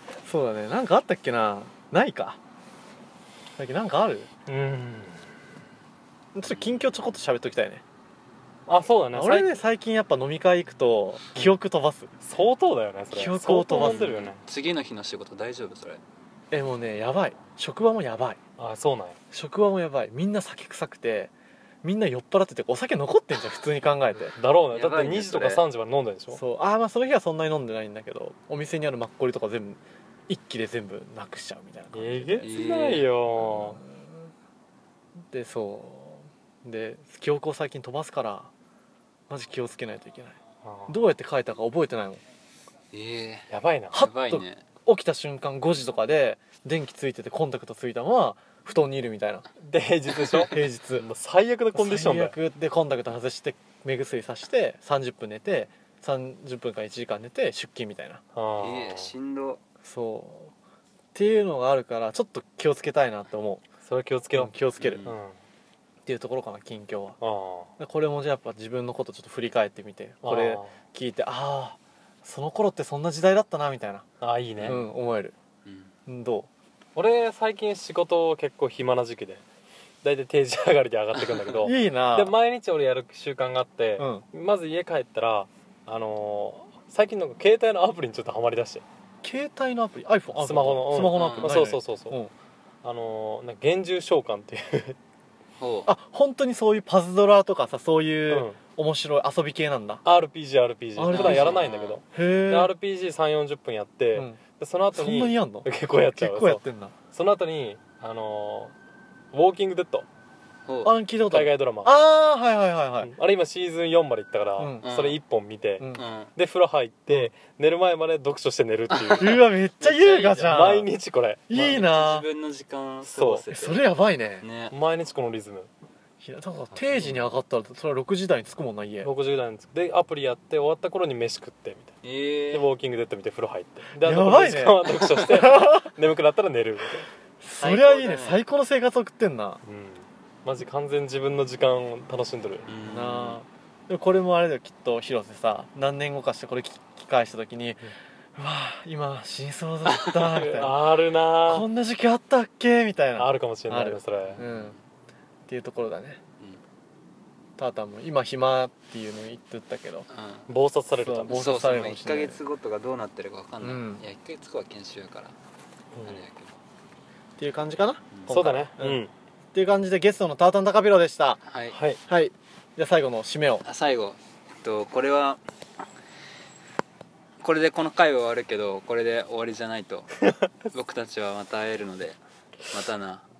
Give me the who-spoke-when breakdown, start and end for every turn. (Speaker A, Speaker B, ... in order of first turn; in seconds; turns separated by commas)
Speaker A: 0.2-2.4, Speaker A: 3.6-4.3, Speaker B: 4.5-5.3, Speaker A: 6.3-7.8, Speaker C: 6.4-7.1, Speaker B: 8.7-9.6, Speaker A: 9.1-12.1, Speaker B: 12.2-14.4, Speaker A: 13.1-14.1, Speaker C: 13.7-16.0, Speaker A: 16.5-18.4, Speaker B: 18.6-19.2, Speaker A: 19.3-24.4, Speaker B: 24.3-26.4, Speaker C: 24.7-25.6, Speaker A: 26.3-34.1, Speaker B: 31.9-33.8, Speaker C: 32.4-33.1, Speaker A: 35.3-38.5, Speaker A: 39.3-42.2, Speaker B: 40.6-41.1, Speaker C: 42.9-44.6, Speaker B: 43.5-44.1, Speaker A: 43.9-49.5, Speaker B: 49.6-52.3, Speaker A: 50.2-51.1, Speaker A: 51.7-58.2, Speaker B: 58.3-59.1, Speaker C: 58.6-59.6, Speaker A: 59.8-60.5, Speaker A: 61.1-63.6, Speaker B: 63.8-65.4, Speaker A: 64.3-65.0, Speaker C: 64.8-65.2, Speaker A: 66.0-67.2, Speaker B: 67.2-67.7, Speaker A: 67.8-74.0, Speaker B: 70.2-70.7, Speaker B: 74.2-74.8, Speaker C: 74.6-74.8, Speaker A: 74.7-75.3, Speaker C: 75.6-75.9, Speaker A: 76.1-76.5, Speaker B: 76.9-79.4, Speaker B: 80.0-88.8, Speaker C: 81.1-81.5, Speaker A: 81.6-82.3, Speaker A: 84.0-84.2, Speaker A: 89.2-92.3, Speaker B: 90.4-92.2, Speaker C: 91.1-91.6, Speaker B: 92.8-95.0, Speaker C: 95.6-95.9, Speaker A: 95.8-100.0, Speaker B: 98.3-98.6, Speaker B: 100.0-108.7, Speaker A: 101.0-101.6, Speaker C: 101.1-102.0, Speaker A: 102.1-102.7, Speaker A: 104.1-104.4, Speaker A: 104.9-107.0, Speaker B: 109.3-110.1, Speaker C: 110.6-110.9, Speaker A: 110.8-113.1, Speaker B: 111.3-111.9, Speaker B: 113.0-119.4, Speaker A: 114.6-114.9, Speaker C: 114.8-115.2, Speaker C: 116.0-116.3, Speaker C: 118.9-120.5, Speaker A: 119.2-120.9, Speaker B: 120.4-121.8, Speaker A: 121.5-122.3, Speaker C: 121.6-123.9, Speaker B: 123.0-123.5, Speaker A: 123.5-124.5, Speaker C: 124.4-124.7, Speaker B: 124.7-125.7, Speaker A: 126.2-129.1, Speaker B: 129.0-131.9, Speaker C: 132.0-132.7, Speaker B: 132.5-137.1, Speaker A: 134.0-135.9, Speaker A: 137.4-139.6, Speaker C: 137.6-138.4, Speaker B: 139.6-142.7, Speaker C: 142.7-143.4, Speaker A: 142.9-154.8, Speaker C: 149.8-150.3, Speaker B: 150.3-151.7, Speaker B: 153.2-154.4, Speaker C: 154.2-154.8, Speaker A: 155.5-156.2, Speaker A: 157.6-160.1, Speaker C: 160.1-160.5, Speaker B: 160.5-161.4, Speaker A: 161.0-162.4, Speaker C: 161.3-165.3, Speaker A: 163.6-164.0, Speaker B: 165.9-166.2, Speaker C: 166.0-166.6, Speaker A: 167.4-171.4, Speaker B: 168.3-169.1, Speaker C: 171.4-171.8, Speaker B: 171.7-172.0, Speaker A: 172.1-173.6, Speaker C: 173.6-175.4, Speaker C: 177.4-180.1, Speaker C: 180.7-182.2, Speaker C: 182.7-183.2